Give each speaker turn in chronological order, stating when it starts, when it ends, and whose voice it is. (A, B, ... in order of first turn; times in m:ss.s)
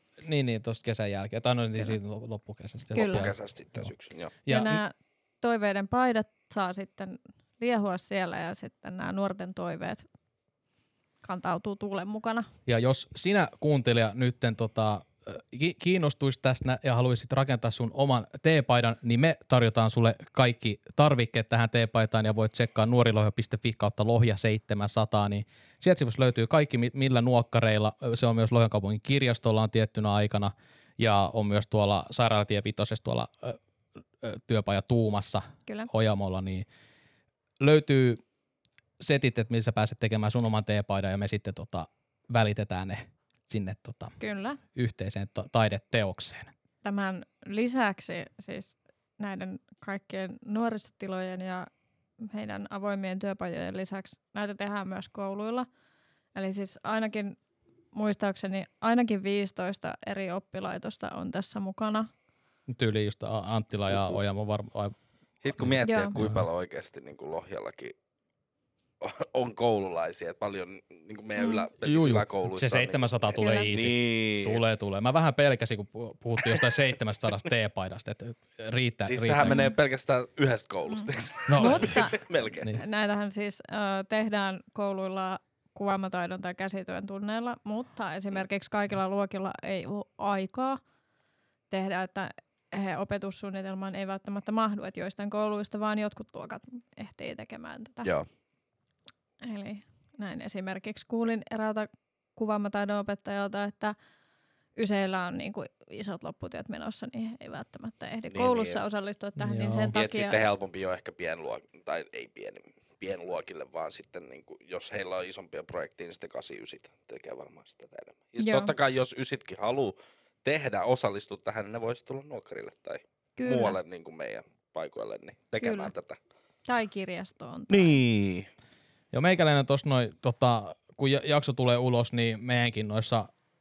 0:00.2-0:03.3 A
0:03.0-0:03.3 B
0:03.0-0:04.4 C
0:04.5-0:04.8 A
0:04.5-0:10.1 B
0:11.2-0:12.5 B
0:12.7-0:33.6 A
0:34.2-0:36.7 A
0:37.6-0:38.2 A
0:39.0-0:44.2 A
0:44.2-0:44.6 B
0:44.8-0:46.5 A
0:46.8-0:51.7 B
0:52.2-0:55.7 B
0:56.3-0:57.4 B
0:57.9-1:02.1 B
1:02.7-1:05.0 A
1:05.4-1:07.9 C
1:05.6-1:06.5 A
1:05.8-1:06.1 B
1:09.0-1:14.6 C
1:11.4-1:11.7 B
1:11.8-1:19.7 A
1:13.4-1:13.7 B
1:19.0-1:22.7 C
1:19.4-1:19.7 B
1:20.9-1:30.8 B
1:21.5-1:22.1 A
1:31.7-1:38.1 B
1:39.4-1:44.0 B
1:44.8-1:50.4 B
1:48.3-1:48.8 C
1:49.4-1:50.0 A
1:49.9-2:06.2 C
1:58.4-1:58.7 B
2:03.4-2:03.8 B
2:05.6-2:05.9 B
2:06.7-2:08.0 B
2:07.7-2:08.5 C
2:09.1-2:13.3 A